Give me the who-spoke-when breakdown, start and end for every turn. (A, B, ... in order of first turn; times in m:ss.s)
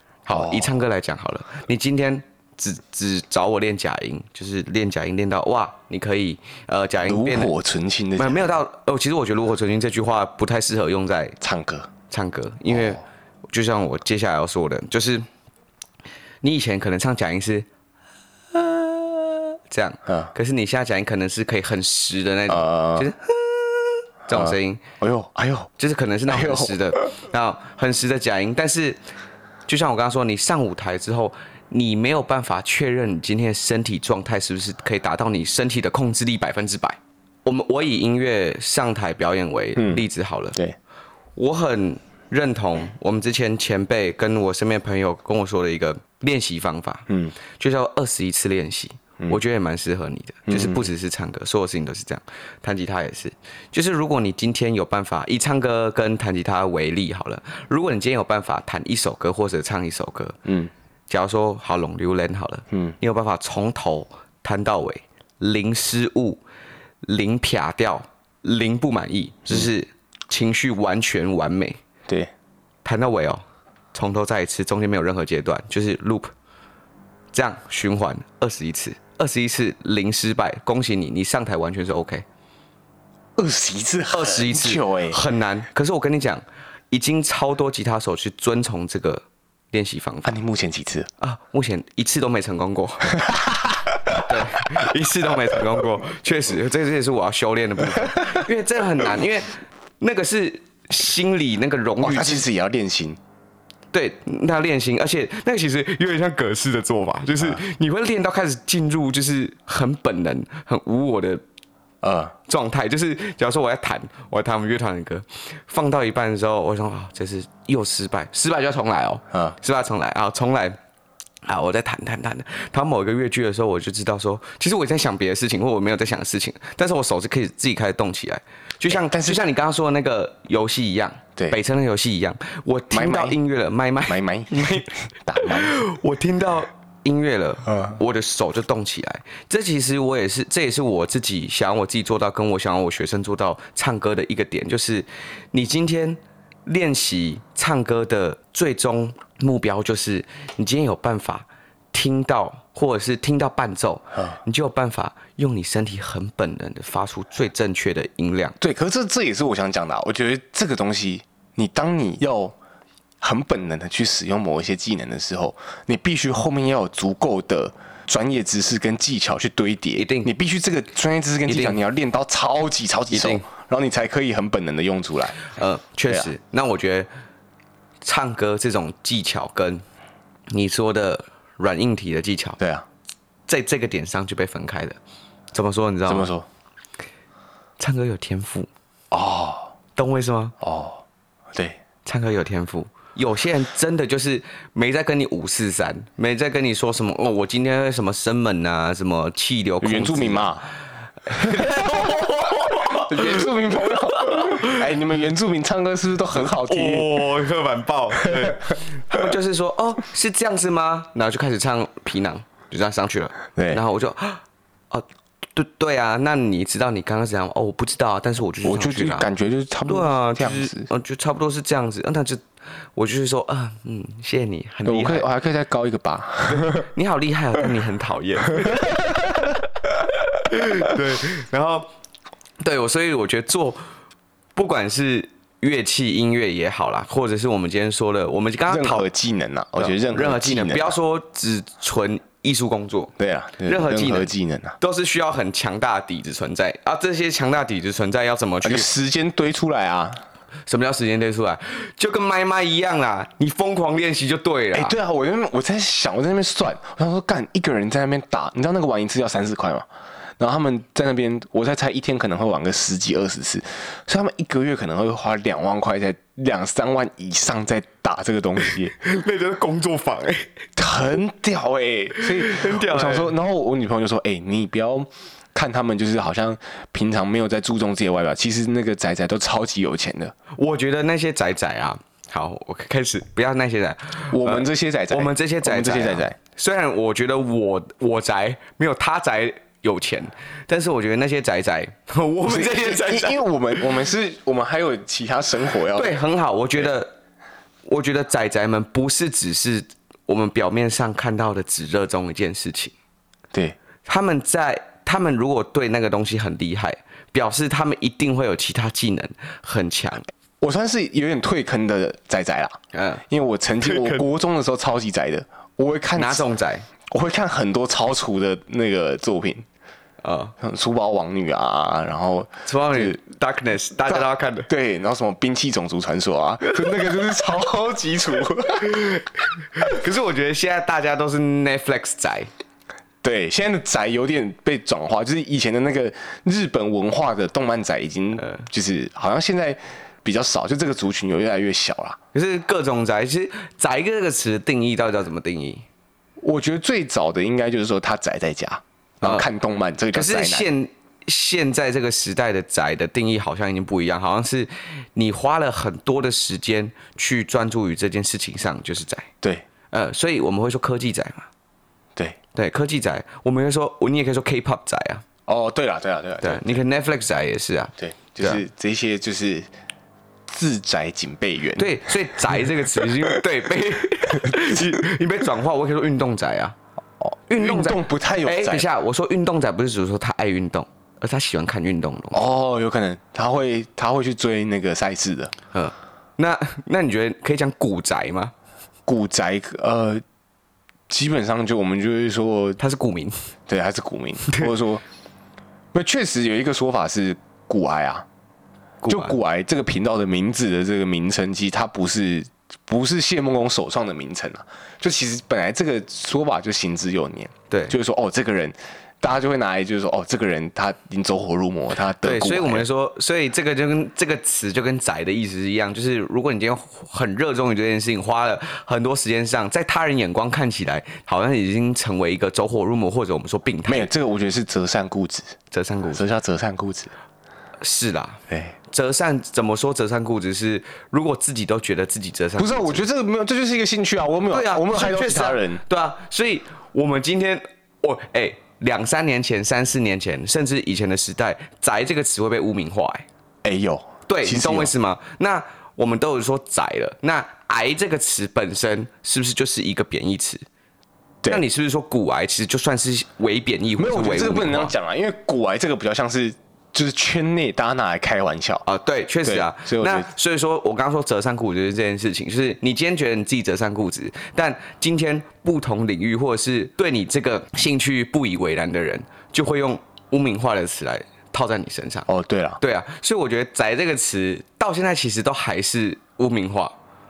0:00.3-0:07.5 A
0:00.3-0:00.7 B
0:07.1-0:08.6 B
0:08.2-0:11.4 A
0:11.4-0:11.9 B
0:12.1-0:15.3 A
0:16.4-0:17.7 A
0:18.5-0:24.8 A
0:20.1-0:20.3 B
0:22.5-0:23.1 B
0:24.3-0:25.7 B
0:25.8-0:29.0 A
0:26.3-0:27.1 B
0:29.7-0:40.6 A
0:39.8-0:40.0 B
0:41.4-1:00.4 A
0:47.1-0:47.3 B
0:50.5-0:50.9 B
1:01.1-1:06.4 A
1:07.0-1:11.8 A
1:12.8-1:16.3 A
1:17.3-1:22.2 A
1:23.4-1:25.2 B
1:24.1-1:30.3 A
1:30.2-1:31.1 B
1:31.2-1:33.3 A
1:33.3-1:33.8 B
1:34.1-1:42.5 A
1:42.0-1:43.2 B
1:43.9-1:51.4 A
1:52.0-1:52.3 B
1:52.5-2:00.8 A
2:01.5-2:38.6 A
2:08.9-2:09.4 B
2:12.9-2:13.4 B
2:14.1-2:15.8 B
2:38.6-2:42.6 B
2:43.2-2:55.4 B
2:50.0-2:50.3 A
2:51.5-2:51.8 A
2:53.1-2:53.5 A
2:55.5-2:57.1 A
2:58.0-2:59.8 A
3:00.5-3:02.6 A
3:02.6-3:02.9 B
3:03.5-3:05.0 A
3:05.5-3:06.3 A
3:06.1-3:06.5 B
3:07.8-3:08.7 A
3:09.1-3:09.7 B
3:10.0-3:10.6 A
3:10.6-3:11.0 B
3:11.5-3:11.8 B
3:12.0-3:20.6 A
3:19.8-3:20.7 B
3:21.3-3:23.5 A
3:22.9-3:27.3 B
3:24.1-3:24.8 A
3:26.3-3:39.3 A
3:28.3-3:28.5 B
3:33.6-3:33.8 B
3:38.6-3:40.9 B
3:39.8-3:42.4 A
3:43.0-3:45.3 A
3:44.9-3:46.9 B
3:46.5-3:51.9 A
3:52.6-3:53.8 A
3:54.6-3:59.1 A
3:58.7-4:01.0 B
3:59.8-4:03.1 A
4:03.2-4:04.8 B
4:03.6-4:08.9 A
4:08.6-4:10.2 B
4:10.7-4:15.0 A
4:14.7-4:19.9 B
4:20.4-4:28.9 B
4:29.0-4:30.5 A
4:30.8-4:40.3 B
4:32.2-4:33.3 A
4:40.6-4:53.8 A
4:44.3-4:46.4 B
4:52.4-4:56.2 B
4:55.9-4:57.1 A
4:57.8-5:02.9 A
5:04.1-5:10.3 A
5:10.6-5:16.5 B
5:12.9-5:13.2 A
5:13.8-5:14.2 A
5:16.2-5:16.9 A
5:17.1-5:19.7 B
5:20.2-5:20.6 A
5:20.6-5:23.2 B
5:22.7-5:24.7 A
5:24.1-5:29.0 B
5:28.9-5:32.5 A
5:33.2-5:42.2 B
5:38.4-5:38.7 A
5:42.3-5:45.8 A
5:46.4-5:50.7 B
5:50.1-5:59.3 A
5:59.9-6:01.5 A
6:02.6-6:05.2 A
6:05.5-6:06.8 B
6:06.4-6:08.6 A
6:08.0-6:09.7 B
6:10.5-6:12.1 B
6:11.8-6:16.8 A
6:17.5-6:22.5 A
6:17.6-6:18.9 B
6:22.3-6:25.6 B
6:25.7-6:28.5 A
6:29.1-6:30.2 B
6:31.1-6:32.8 B
6:32.8-6:33.4 A
6:33.7-6:35.0 B
6:35.9-6:38.3 B
6:39.0-6:39.4 A
6:39.1-6:52.9 B
6:52.2-7:04.1 A
7:03.9-7:05.6 B
7:05.7-7:06.3 A
7:06.1-7:07.1 B
7:07.8-7:13.0 A
7:08.5-7:08.8 B
7:12.6-7:15.8 B
7:14.5-7:23.3 A
7:23.6-7:24.9 B
7:24.3-7:30.6 A
7:31.5-7:35.0 A
7:34.0-7:38.9 B
7:38.9-7:52.3 A
7:39.4-7:40.3 B
7:52.3-7:52.8 B
7:52.8-7:57.0 A